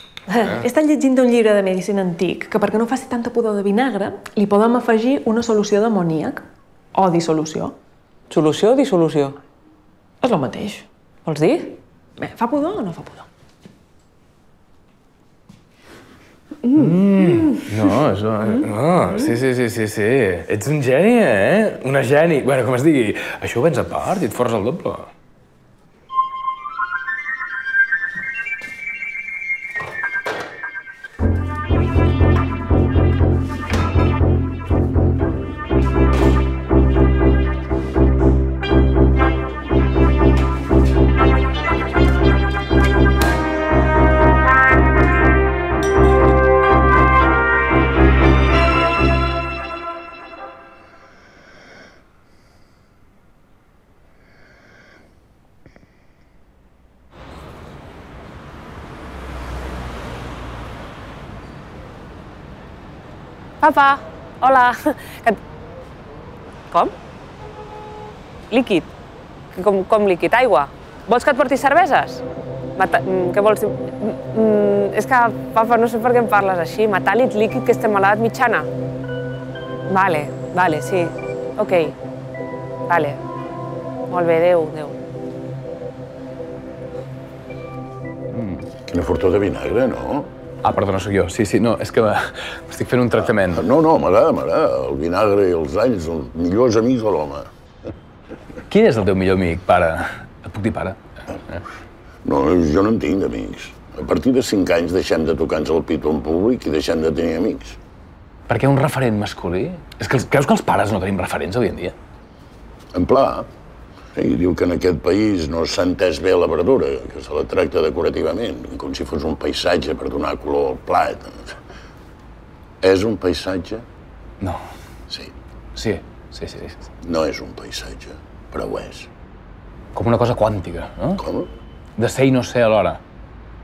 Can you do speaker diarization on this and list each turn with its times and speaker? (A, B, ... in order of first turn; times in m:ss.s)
0:00.6-0:07.7 A
0:08.3-0:09.4 B
0:10.2-0:10.8 A
0:11.3-0:11.8 B
0:12.2-0:13.2 A
0:16.7-0:25.1 C
1:03.6-1:05.4 B
1:08.5-1:08.9 B
1:09.6-1:12.2 B
1:12.8-1:18.7 B
1:19.9-1:21.9 B
1:22.9-1:23.2 B
1:24.1-1:25.0 B
1:28.3-1:28.7 C
1:28.9-1:30.3 D
1:30.6-1:33.6 C
1:33.2-1:37.5 D
1:38.7-1:41.0 C
1:42.2-1:47.8 D
1:48.5-1:52.0 C
1:52.9-1:53.5 D
1:54.2-2:01.6 D
2:02.8-2:03.8 D
2:05.8-2:06.8 C
2:07.0-2:09.1 D
2:09.9-2:11.2 C
2:11.2-2:11.5 D
2:12.0-2:13.0 C